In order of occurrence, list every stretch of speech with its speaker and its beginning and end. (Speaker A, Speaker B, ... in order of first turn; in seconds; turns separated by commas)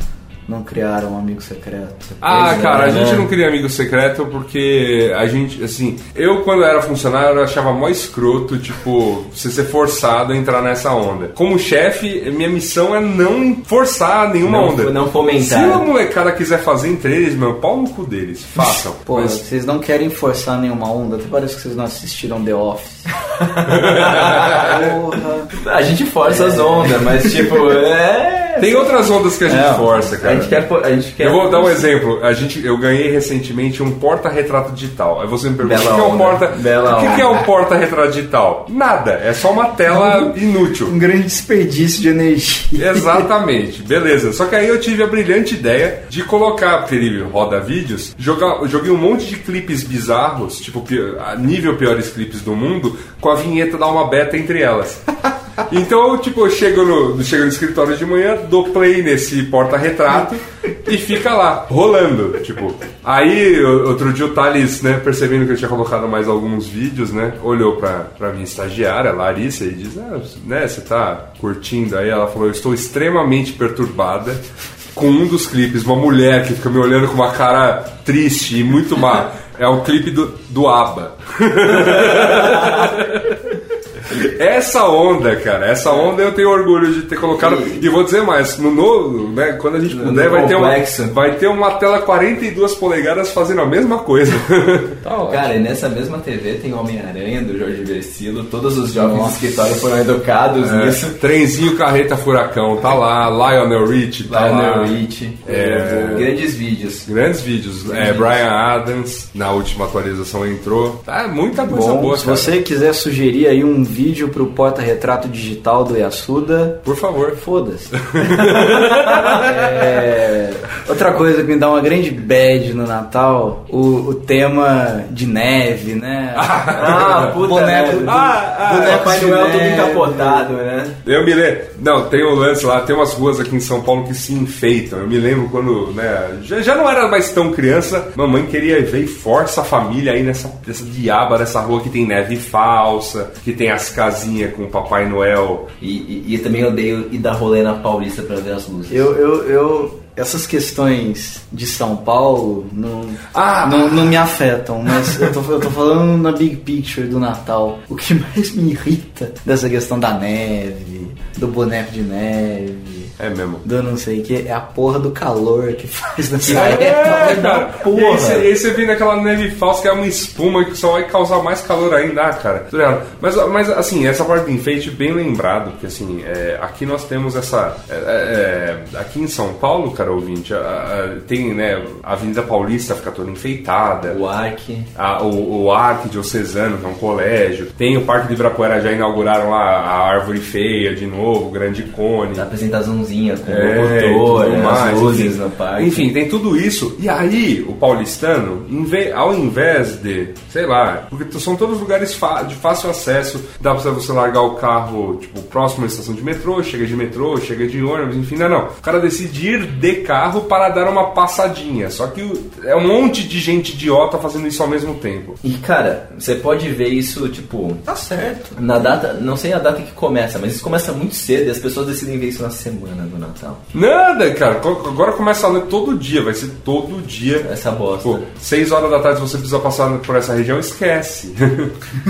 Speaker A: 0.5-2.2, Speaker B: 2.2-19.4, Speaker C: 2.2-3.3, Speaker C: 14.4-15.8, Speaker A: 18.6-23.1, Speaker C: 23.4-24.7, Speaker B: 23.7-24.9, Speaker A: 24.4-25.5, Speaker C: 25.5-29.1, Speaker A: 26.2-27.5, Speaker B: 28.6-30.6, Speaker A: 29.4-30.1, Speaker C: 30.2-31.9, Speaker B: 31.2-40.9, Speaker C: 35.6-37.4, Speaker A: 39.9-40.3, Speaker A: 40.8-43.3, Speaker B: 42.8-55.0, Speaker B: 55.6-83.5, Speaker C: 81.7-83.0, Speaker B: 84.1-95.0, Speaker C: 87.2-87.8, Speaker C: 89.9-91.2, Speaker A: 95.0-95.5, Speaker C: 95.3-101.2, Speaker A: 99.0-99.7, Speaker B: 100.6-106.3, Speaker C: 104.3-107.1, Speaker B: 107.0-112.6, Speaker C: 107.9-108.4, Speaker A: 111.6-130.5, Speaker B: 116.8-117.4, Speaker B: 117.9-119.6, Speaker B: 126.3-127.4, Speaker C: 126.7-131.0, Speaker B: 128.0-129.2, Speaker B: 131.0-145.7, Speaker C: 145.8-149.1, Speaker A: 148.9-167.3, Speaker B: 153.3-154.3, Speaker B: 163.2-163.6, Speaker B: 166.4-184.2, Speaker C: 166.4-168.5, Speaker C: 184.1-184.9, Speaker B: 184.9-192.5, Speaker C: 192.3-196.1, Speaker B: 193.4-215.4, Speaker C: 215.4-217.8, Speaker A: 217.8-219.0, Speaker C: 218.6-223.6, Speaker B: 223.7-227.5, Speaker C: 227.4-228.2, Speaker B: 228.0-231.7